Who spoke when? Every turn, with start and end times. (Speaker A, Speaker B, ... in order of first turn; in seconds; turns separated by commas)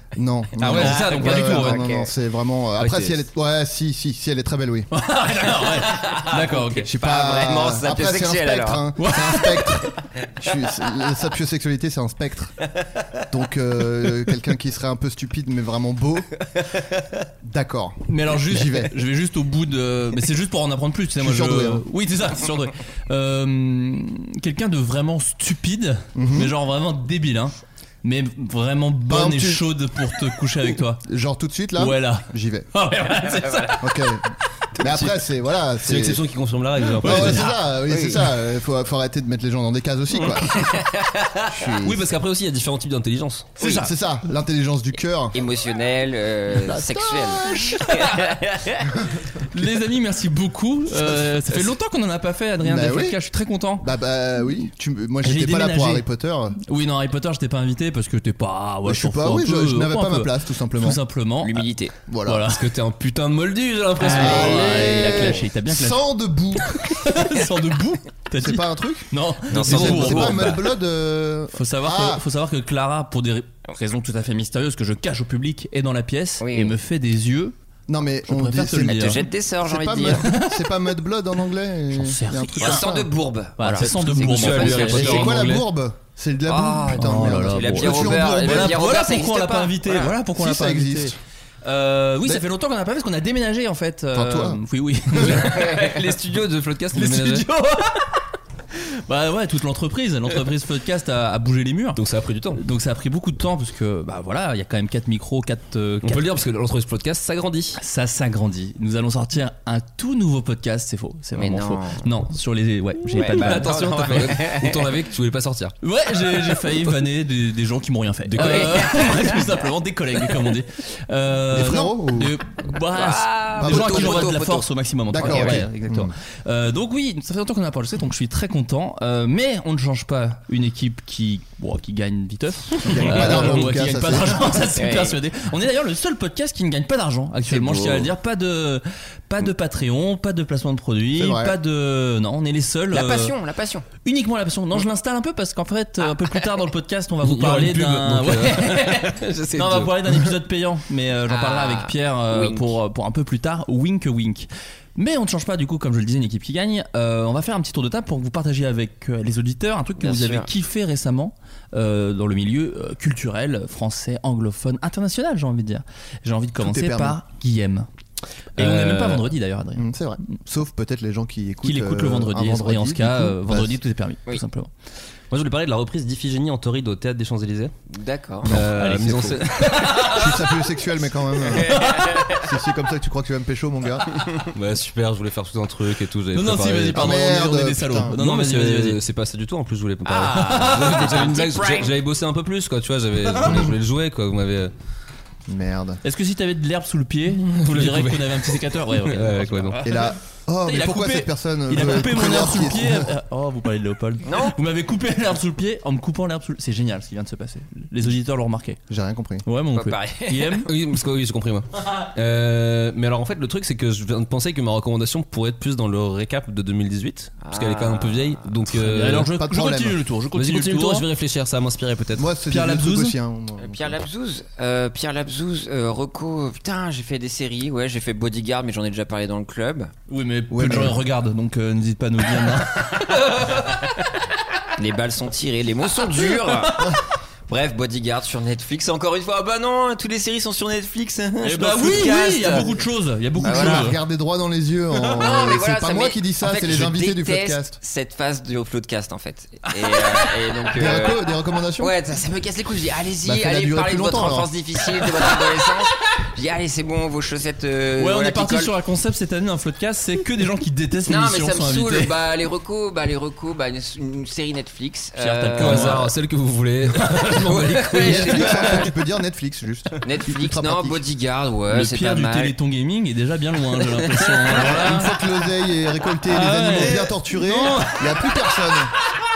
Speaker A: 0.1-4.9, Speaker B: 0.6-1.9, Speaker C: 0.6-1.6, Speaker D: 0.8-2.1, Speaker C: 2.8-3.2, Speaker B: 4.9-6.9, Speaker D: 5.6-8.9, Speaker A: 6.8-12.6, Speaker B: 9.0-9.7, Speaker A: 13.3-16.3, Speaker A: 17.4-18.9, Speaker B: 18.1-31.0, Speaker A: 21.2-21.8, Speaker A: 26.1-26.5, Speaker A: 29.1-29.7, Speaker A: 31.0-32.7, Speaker B: 31.8-34.1, Speaker D: 33.4-33.7, Speaker A: 33.8-34.2, Speaker A: 34.8-36.2, Speaker C: 35.8-37.5, Speaker A: 37.0-40.6, Speaker B: 37.0-37.5, Speaker D: 37.9-38.3, Speaker D: 40.5-41.5, Speaker A: 41.4-42.0, Speaker C: 41.8-43.5, Speaker B: 43.6-43.9, Speaker A: 43.6-45.4, Speaker D: 45.3-48.9, Speaker A: 46.5-47.8, Speaker B: 47.5-48.2, Speaker B: 49.4-53.9, Speaker A: 52.6-53.2, Speaker A: 53.8-56.6, Speaker B: 55.2-56.0, Speaker B: 56.6-61.7, Speaker A: 58.8-61.0, Speaker D: 61.4-61.9, Speaker A: 62.1-62.5, Speaker B: 62.2-62.6, Speaker C: 62.5-64.7, Speaker B: 64.0-66.0, Speaker A: 64.0-67.0, Speaker D: 64.7-65.3, Speaker B: 66.9-70.6, Speaker A: 68.4-72.2, Speaker D: 69.5-70.5, Speaker C: 69.6-70.3, Speaker B: 71.5-77.5, Speaker D: 76.4-76.7, Speaker A: 77.9-83.1, Speaker B: 78.2-79.3, Speaker D: 78.9-80.2, Speaker B: 80.2-80.7, Speaker B: 81.9-82.8, Speaker D: 82.6-85.4, Speaker B: 83.6-85.5, Speaker C: 83.8-85.7, Speaker A: 84.9-88.8, Speaker D: 86.5-90.2, Speaker B: 86.9-95.8, Speaker A: 90.3-91.2, Speaker A: 94.1-94.6, Speaker C: 95.2-97.5, Speaker D: 95.5-95.9, Speaker B: 96.9-98.1, Speaker B: 99.1-102.0, Speaker C: 102.0-102.6, Speaker B: 102.6-106.2, Speaker C: 106.0-107.8, Speaker B: 107.8-114.3, Speaker D: 111.3-112.0, Speaker D: 113.1-114.9, Speaker C: 113.4-115.7, Speaker B: 115.8-143.3, Speaker C: 118.3-119.1, Speaker D: 118.4-119.5, Speaker A: 121.5-122.3, Speaker D: 122.9-125.6, Speaker A: 123.6-124.3, Speaker A: 125.1-126.1, Speaker A: 132.8-134.6, Speaker D: 134.7-135.2, Speaker A: 137.5-138.1, Speaker A: 141.2-141.6, Speaker D: 142.9-143.8, Speaker B: 144.0-167.9, Speaker C: 147.2-149.9, Speaker D: 151.3-152.8, Speaker D: 160.0-160.5, Speaker A: 166.6-167.2, Speaker C: 168.6-169.3, Speaker B: 168.6-169.8, Speaker A: 169.8-173.8, Speaker B: 171.6-174.7, Speaker C: 175.3-177.7, Speaker D: 177.9-178.5, Speaker C: 178.4-179.7, Speaker B: 178.6-180.4, Speaker A: 180.1-184.1, Speaker D: 181.7-182.4, Speaker B: 181.7-182.2, Speaker C: 184.5-187.2, Speaker B: 186.3-189.0, Speaker A: 186.9-188.2, Speaker C: 188.2-194.7, Speaker B: 190.1-191.4, Speaker D: 190.6-191.9, Speaker A: 195.5-196.0, Speaker B: 196.0-200.1, Speaker C: 197.5-199.8, Speaker A: 199.8-203.1, Speaker B: 200.6-208.8, Speaker D: 204.2-204.6, Speaker A: 208.9-209.4, Speaker B: 209.4-210.7, Speaker D: 209.7-210.7, Speaker C: 210.7-219.3, Speaker D: 217.4-218.5, Speaker B: 218.8-221.1, Speaker A: 219.1-220.0, Speaker C: 220.3-222.3, Speaker A: 222.2-224.0, Speaker B: 222.5-223.2, Speaker D: 223.6-229.9, Speaker B: 230.1-233.1, Speaker A: 230.5-231.0, Speaker D: 234.8-242.8, Speaker B: 241.4-244.0, Speaker A: 243.4-247.8, Speaker D: 243.4-243.9, Speaker D: 245.0-251.3, Speaker B: 249.8-250.1, Speaker A: 250.7-251.9, Speaker D: 251.8-258.7, Speaker A: 253.2-254.5, Speaker B: 258.0-262.1, Speaker D: 261.0-266.0, Speaker B: 265.2-266.1, Speaker C: 265.6-267.4, Speaker B: 266.9-268.9, Speaker D: 267.3-268.9, Speaker A: 268.0-271.0, Speaker D: 270.0-272.5, Speaker B: 271.7-275.1, Speaker D: 274.1-274.7, Speaker A: 274.5-278.9, Speaker B: 276.3-278.1